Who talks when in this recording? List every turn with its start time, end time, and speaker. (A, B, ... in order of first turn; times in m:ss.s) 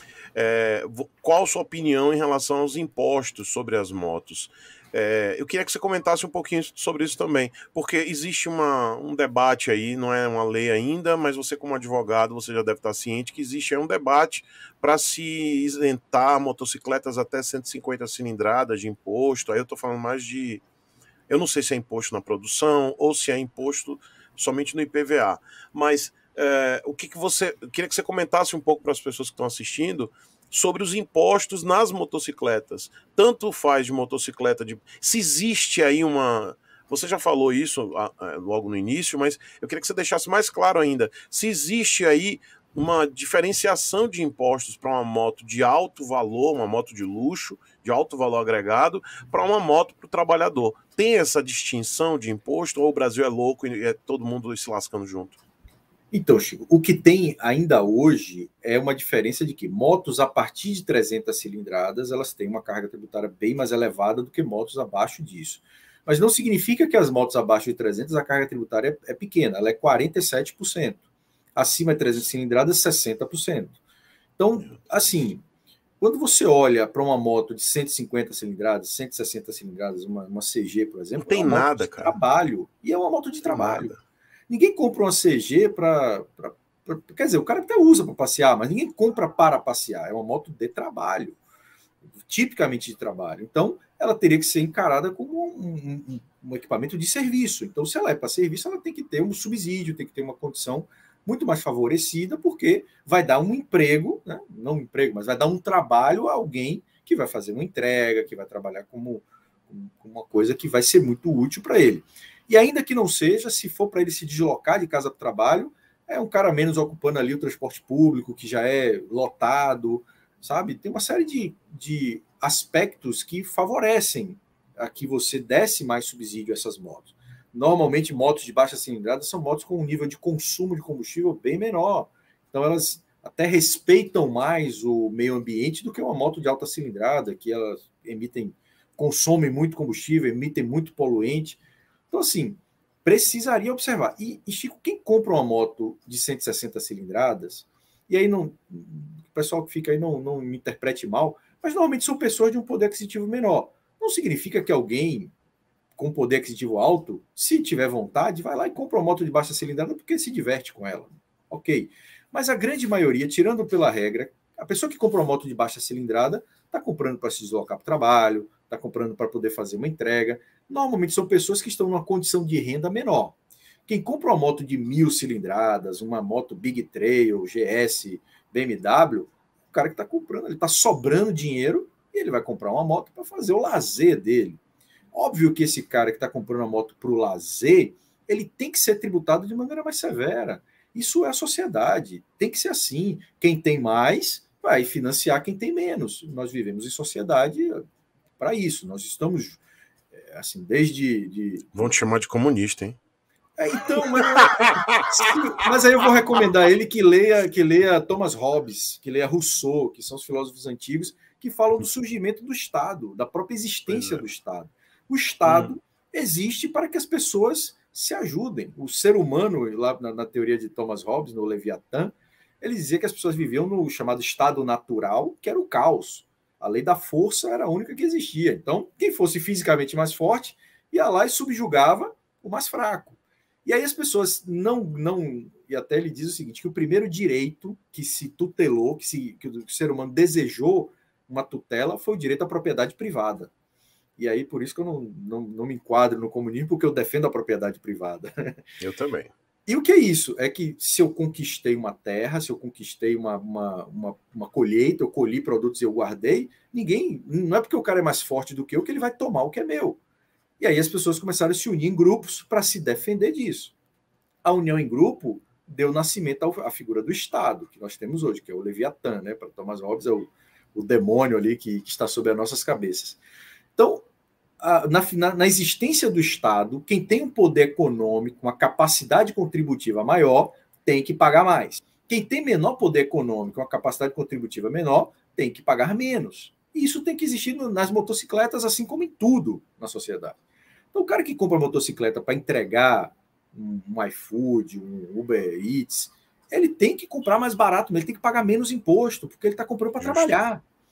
0:00.4-0:20.6 A
0:21.3-0:55.4 A
0:56.1-1:11.0 B
1:11.6-1:13.8 B
1:14.4-1:15.4 B
1:14.7-1:15.1 A
1:16.0-1:23.9 B
1:21.2-1:22.2 A
1:23.5-1:24.0 A
1:24.5-1:31.4 B
1:32.2-2:21.6 B
2:22.1-2:35.3 B
2:36.0-3:04.6 B
3:05.1-3:17.8 B
3:18.4-3:19.6 B
3:20.1-3:21.9 B
3:21.7-3:23.0 A
3:23.6-4:03.5 B
3:24.5-3:25.4 A
3:33.9-3:34.2 A
3:35.5-3:35.7 A
4:04.2-4:08.6 B
4:08.8-4:09.3 A
4:09.7-4:20.0 B
4:20.6-4:23.8 B
4:24.4-4:33.2 B
4:33.8-4:34.1 B
4:34.6-4:50.4 B
4:50.9-5:00.6 B
5:00.0-5:00.4 A